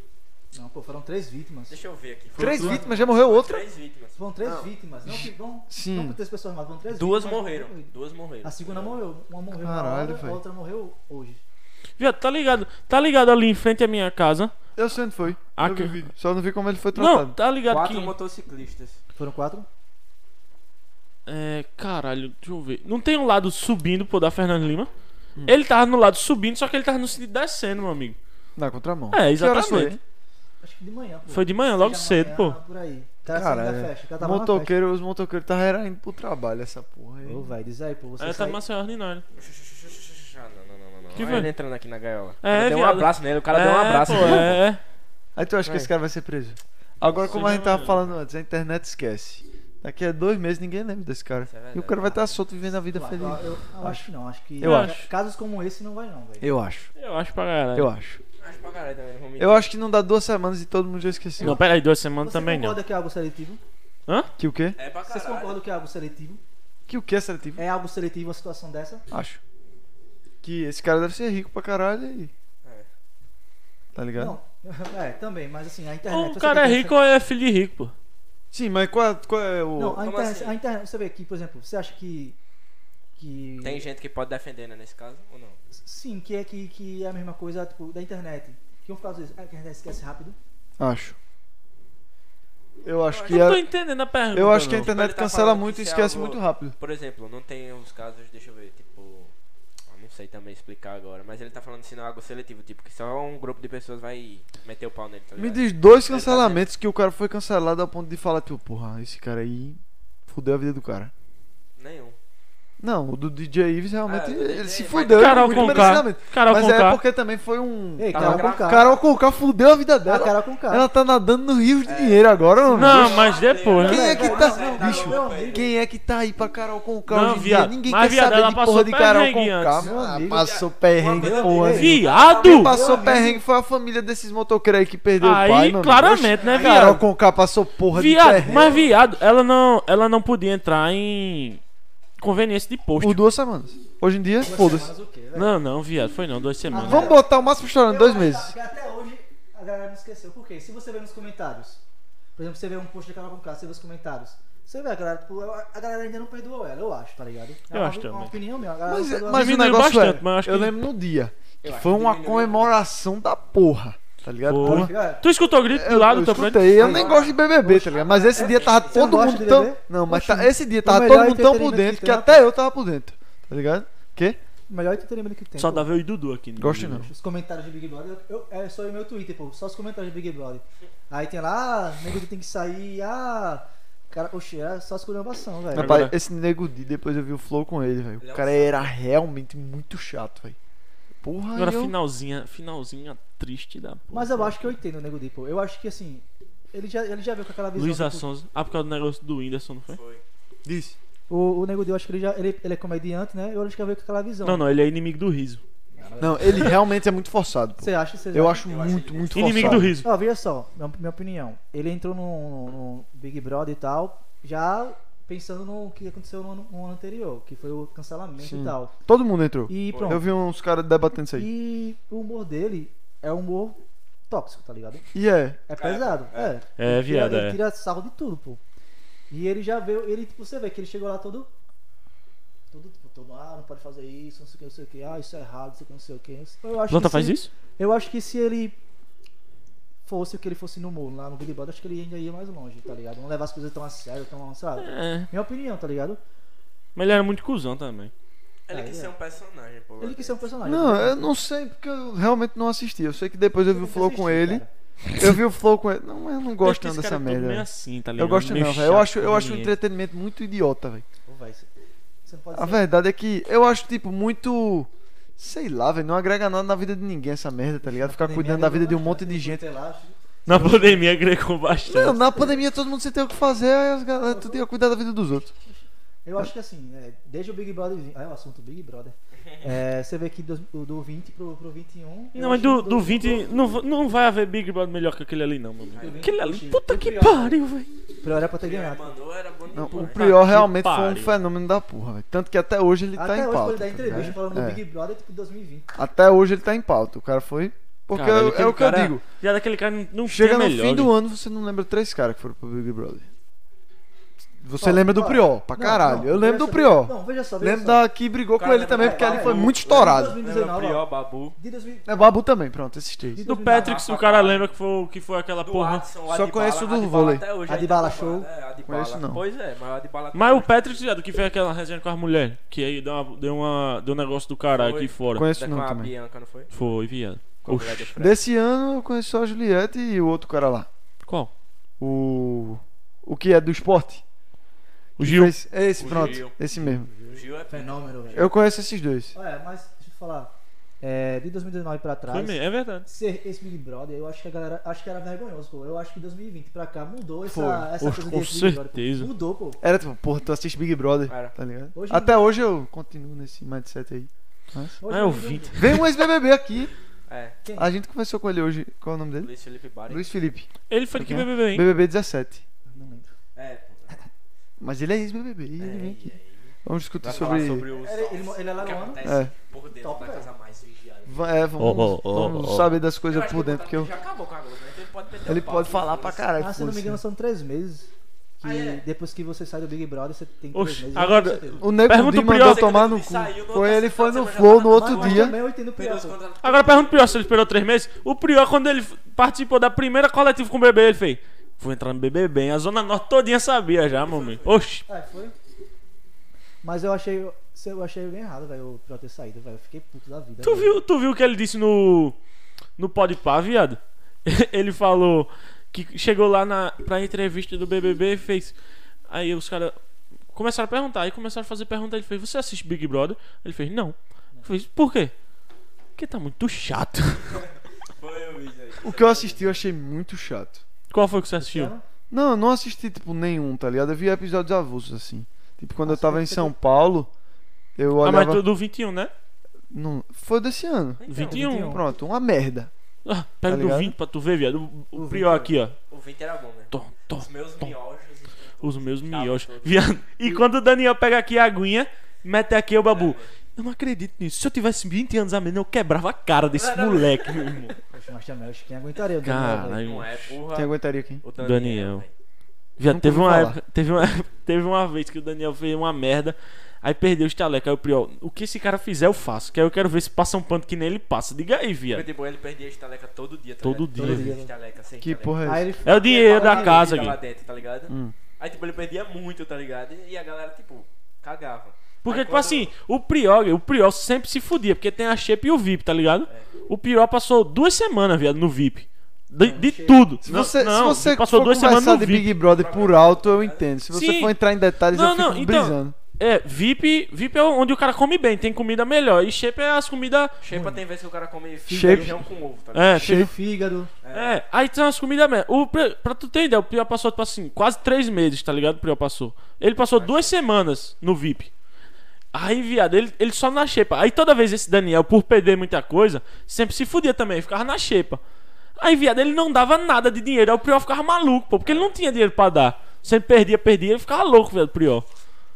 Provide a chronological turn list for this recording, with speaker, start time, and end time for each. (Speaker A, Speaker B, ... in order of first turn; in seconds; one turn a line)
Speaker A: 0.5-1.8
Speaker B: 1.7-4.6
Speaker C: 2.4-3.6
Speaker A: 2.4-3.1
Speaker A: 4.2-7.9
Speaker C: 5.0-6.2
Speaker B: 6.9-9.0
Speaker A: 8.4-11.4
Speaker C: 9.6-10.4
Speaker D: 12.0-14.5
Speaker C: 14.8-17.4
Speaker D: 15.6-16.0
Speaker D: 16.9-18.1
Speaker B: 17.7-19.0
Speaker A: 19.2-19.7
Speaker D: 21.3-24.9
Speaker D: 25.4-28.2
Speaker C: 28.6-30.0
Speaker D: 29.1-30.0
Speaker A: 30.6-34.8
Speaker D: 31.3-32.6
Speaker C: 33.3-37.5
Speaker A: 37.2-38.6
Speaker D: 38.2-39.2
Speaker B: 39.4-44.6
Speaker D: 41.1-41.5
Speaker D: 42.4-44.8
Speaker C: 44.1-44.5
Speaker C: 45.4-54.1
Speaker D: 47.3-48.0
Speaker B: 47.3-48.2
Speaker B: 51.5-52.4
Speaker A: 52.9-56.5
Speaker C: 54.6-55.0
Speaker D: 54.6-55.1
Speaker C: 56.4-56.9
Speaker D: 57.0-57.9
Speaker C: 57.7-58.2
Speaker B: 58.4-59.7
Speaker C: 59.4-61.6
Speaker A: 61.4-63.6
Speaker D: 61.4-62.8
Speaker C: 64.4-64.8
Speaker B: 64.8-65.6
Speaker A: 65.1-66.4
Speaker C: 66.9-67.6
Speaker A: 67.6-69.0
Speaker C: 69.1-69.4
Speaker C: 70.4-72.3
Speaker C: 74.0-74.4
Speaker A: 74.2-77.0
Speaker D: 76.1-78.0
Speaker C: 78.5-80.0
Speaker A: 79.8-82.4
Speaker B: 80.0-80.6
Speaker A: 83.2-83.9
Speaker B: 83.6-85.6
Speaker A: 85.8-90.4
Speaker C: 90.8-91.2
Speaker C: 92.8-93.7
Speaker B: 93.1-93.6
Speaker D: 93.3-94.9
Speaker C: 94.3-96.8
Speaker B: 94.8-99.3
Speaker B: 99.9-106.7
Speaker C: 105.4-111.1
Speaker B: 111.8-112.2
Speaker C: 112.8-123.3
Speaker B: 114.1-116.1
Speaker D: 115.1-117.0
Speaker A: 118.0-118.9
Speaker B: 118.1-119.0
Speaker A: 120.0-120.9
Speaker B: 121.8-125.7
Speaker A: 122.7-123.2
Speaker D: 122.7-124.2
Speaker A: 123.8-125.7
Speaker C: 123.8-138.8
Speaker D: 127.1-129.8
Speaker A: 129.8-130.6
Speaker B: 129.8-133.1
Speaker A: 131.2-132.0
Speaker D: 131.6-132.7
Speaker A: 132.6-133.4
Speaker D: 135.2-137.1
Speaker A: 136.4-136.9
Speaker D: 137.9-141.6
Speaker A: 138.4-139.0
Speaker D: 142.2-143.2
Speaker C: 143.0-144.9
Speaker A: 144.4-145.6
Speaker D: 145.3-147.2
Speaker C: 146.7-148.5
Speaker A: 146.7-147.3
Speaker A: 147.8-151.8
Speaker A: 152.4-159.6
Speaker D: 157.7-158.3
Speaker C: 158.9-164.9
Speaker D: 159.3-160.8
Speaker B: 161.6-162.7
Speaker D: 164.5-166.9
Speaker A: 164.6-165.2
Speaker C: 165.7-174.4
Speaker B: 166.7-169.3
Speaker A: 166.8-172.4
Speaker A: 174.7-175.9
Speaker D: 175.6-177.1
Speaker C: 176.6-177.1
Speaker A: 177.0-186.1
Speaker C: 185.7-190.6
Speaker D: 185.8-186.1
Speaker B: 188.2-188.9
Speaker C: 191.2-191.9
Speaker D: 191.6-194.7
Speaker A: 194.1-198.3
Speaker D: 197.8-200.0
Speaker B: 199.9-200.2
Speaker C: 200.7-201.0
Speaker A: 201.3-204.6
Speaker D: 204.4-205.6
Speaker A: 205.9-206.8
Speaker C: 206.2-210.0
Speaker A: 207.8-208.7
Speaker B: 208.6-209.8
Speaker D: 209.3-210.1
Speaker A: 209.6-218.9
Speaker C: 218.4-221.5
Speaker A: 219.7-220.2
Speaker B: 219.9-220.2
Speaker A: 221.3-225.1
Speaker C: 225.1-225.6
Speaker A: 225.7-228.6
Speaker B: 225.7-226.5
Speaker D: 226.8-227.6
Speaker A: 229.3-231.5
Speaker A: 232.7-238.8
Speaker D: 236.9-237.5
Speaker A: 240.1-246.2
Speaker D: 244.8-245.3
Speaker D: 247.0-248.1
Speaker B: 248.7-250.4
Speaker A: 248.7-249.1
Speaker A: 250.0-251.3
Speaker C: 250.6-261.1
Speaker A: 253.7-254.7
Speaker D: 256.6-259.7
Speaker A: 261.3-261.7
Speaker A: 262.3-262.9
Speaker C: 262.5-269.6
Speaker A: 267.8-271.1
Speaker D: 270.5-272.2
Speaker C: 271.9-275.5
Speaker A: 272.3-272.6
Speaker A: 274.2-274.6
Speaker A: 275.6-283.5
Speaker D: 282.3-287.9
Speaker B: 285.9-286.2
Speaker A: 286.0-287.6
Speaker A: 288.2-289.2
Speaker B: 288.6-290.4
Speaker C: 289.7-294.8
Speaker D: 289.9-291.3
Speaker A: 293.2-295.9
Speaker C: 295.9-299.2
Speaker D: 298.1-301.1
Speaker C: 300.3-303.3
Speaker C: 304.6-310.4
Speaker A: 304.8-308.1
Speaker B: 308.6-311.6
Speaker A: 308.9-311.1
Speaker A: 311.6-312.3
Speaker C: 312.1-313.4
Speaker A: 313.3-314.1
Speaker D: 313.4-316.1
Speaker B: 313.7-314.7
Speaker B: 315.6-321.0
Speaker C: 316.3-317.4
Speaker A: 317.7-318.5
Speaker C: 318.9-319.4
Speaker D: 320.3-325.5
Speaker B: 324.7-326.9
Speaker C: 325.4-326.1
Speaker D: 326.7-328.1
Speaker B: 327.6-328.4
Speaker C: 328.1-330.9
Speaker D: 331.2-331.5
Speaker C: 332.0-334.2
Speaker D: 335.2-335.5
Speaker C: 335.2-337.1
Speaker B: 335.9-336.6
Speaker A: 336.8-338.5
Speaker B: 337.3-338.7
Speaker C: 338.4-339.4
Speaker A: 339.3-349.8
Speaker D: 342.3-343.1
Speaker C: 347.5-347.9
Speaker D: 348.0-349.3
Speaker C: 349.8-355.0
Speaker B: 351.3-351.6
Speaker A: 351.9-352.5
Speaker A: 355.0-355.8
Speaker D: 355.1-356.1
Speaker C: 355.8-356.9
Speaker B: 357.3-357.6
Speaker A: 357.6-357.9
Speaker C: 357.8-359.5
Speaker B: 359.4-360.2
Speaker C: 360.1-362.6
Speaker D: 360.9-361.9
Speaker A: 362.9-363.3
Speaker B: 363.6-364.2
Speaker C: 364.8-366.3
Speaker B: 365.8-366.7
Speaker C: 366.9-367.9
Speaker B: 367.2-371.5
Speaker A: 367.4-369.2
Speaker C: 369.2-369.5
Speaker A: 370.0-370.5
Speaker C: 371.3-374.1
Speaker D: 371.8-372.9
Speaker B: 373.2-376.5
Speaker C: 375.5-377.2
Speaker A: 376.6-378.1
Speaker A: 378.6-381.9
Speaker B: 378.6-379.0
Speaker D: 380.7-382.9
Speaker C: 381.8-385.6
Speaker B: 382.5-387.4
Speaker A: 384.9-386.4
Speaker D: 386.6-395.0
Speaker B: 394.1-394.7
Speaker A: 395.1-395.6
Speaker A: 396.8-401.0
Speaker D: 400.6-402.4
Speaker D: 403.0-408.8
Speaker D: 409.3-410.0
Speaker D: 410.5-415.3
Speaker D: 416.2-417.6
Speaker B: 418.1-419.8
Speaker C: 419.0-420.8
Speaker D: 421.1-421.9
Speaker A: 421.6-422.0
Speaker C: 422.3-427.3
Speaker A: 426.0-426.8
Speaker C: 428.0-428.7
Speaker D: 428.2-429.3
Speaker C: 429.9-432.9
Speaker B: 431.2-431.6
Speaker D: 431.3-432.0
Speaker A: 431.4-432.0
Speaker D: 433.2-436.0
Speaker C: 433.7-434.1
Speaker A: 435.1-435.7
Speaker B: 436.1-440.1
Speaker D: 436.9-437.9
Speaker D: 438.8-448.0
Speaker B: 443.1-443.6
Speaker B: 446.7-448.0
Speaker A: 448.1-450.1
Speaker D: 449.4-450.6
Speaker B: 450.0-452.3
Speaker C: 450.7-451.4
Speaker D: 451.6-452.2
Speaker D: 453.0-462.3
Speaker C: 453.1-453.8
Speaker B: 462.1-472.9
Speaker D: 463.8-464.5
Speaker A: 464.1-464.7
Speaker C: 465.2-465.9
Speaker A: 465.6-467.1
Speaker D: 466.1-467.4
Speaker C: 468.1-468.4
Speaker D: 472.2-482.5
Speaker A: 479.6-480.2
Speaker C: 480.4-486.2
Speaker B: 482.6-483.9
Speaker D: 484.1-484.5
Speaker D: 485.1-490.6
Speaker B: 490.6-493.2
Speaker A: 490.7-491.0
Speaker A: 491.9-492.4
Speaker C: 491.9-492.4
Speaker D: 492.9-493.5
Speaker A: 493.2-494.1
Speaker C: 493.2-493.5
Speaker B: 494.2-494.6
Speaker D: 494.3-501.7
Speaker B: 500.1-500.6
Speaker D: 502.5-508.4
Speaker D: 509.0-515.3
Speaker B: 511.9-512.1